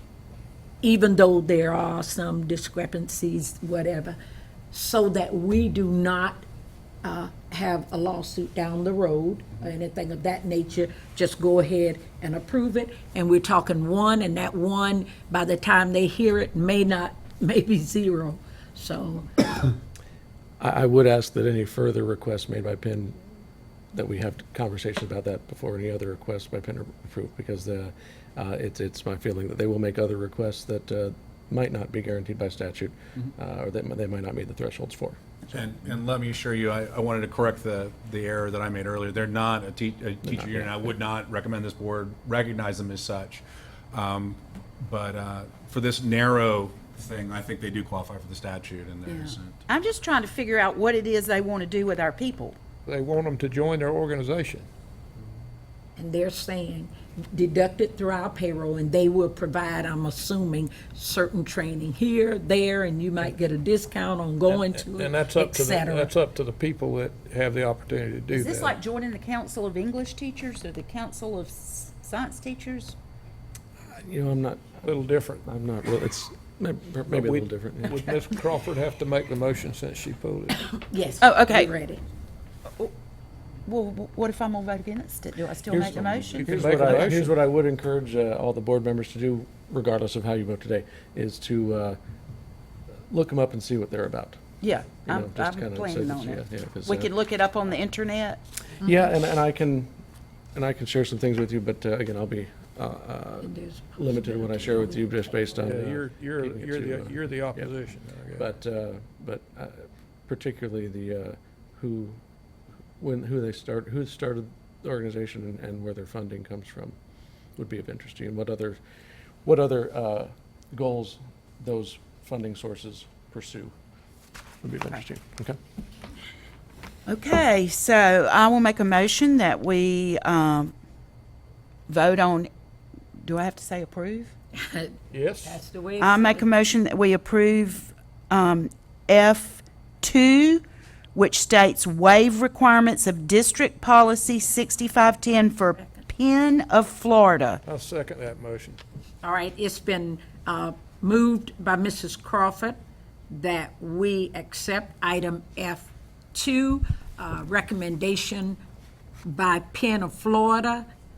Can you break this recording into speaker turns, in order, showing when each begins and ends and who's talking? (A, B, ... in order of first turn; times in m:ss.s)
0:00.8-0:04.2 A
0:04.7-0:06.4 A
0:07.0-0:19.5 A
0:20.6-0:23.2 B
0:23.9-0:35.2 B
0:35.5-0:49.6 C
0:40.2-0:40.8 B
0:49.0-0:52.6 D
0:52.8-0:54.7 E
0:56.0-1:06.1 A
1:04.5-1:08.8 E
1:08.3-1:13.0 D
1:13.9-1:14.8 B
1:14.8-1:15.4 E
1:15.4-1:18.2 B
1:17.1-1:20.7 E
1:20.7-1:22.0 A
1:21.2-1:21.7 D
1:23.6-1:27.0 D
1:25.7-1:32.0 B
1:25.7-1:26.9 C
1:26.4-1:27.3 E
1:33.1-1:34.4 B
1:34.6-1:38.4 D
1:35.0-1:37.1 B
1:38.8-1:39.9 B
1:40.5-1:47.7 B
1:43.4-1:45.5 A
1:45.6-1:48.4 E
1:48.3-1:52.2 B
1:53.0-1:57.0 B
1:57.6-1:58.8 B
1:59.4-2:03.7 B
2:04.6-2:05.6 B
2:07.1-2:10.7 D
2:11.9-2:12.5 D
2:13.2-2:14.3 D
2:14.6-2:16.5 A
2:15.1-2:15.6 E
2:16.0-2:20.6 D
2:21.1-2:27.6 D
2:27.6-2:28.8 E
2:29.2-2:32.8 A
2:33.3-2:38.6 A
2:39.2-2:40.9 A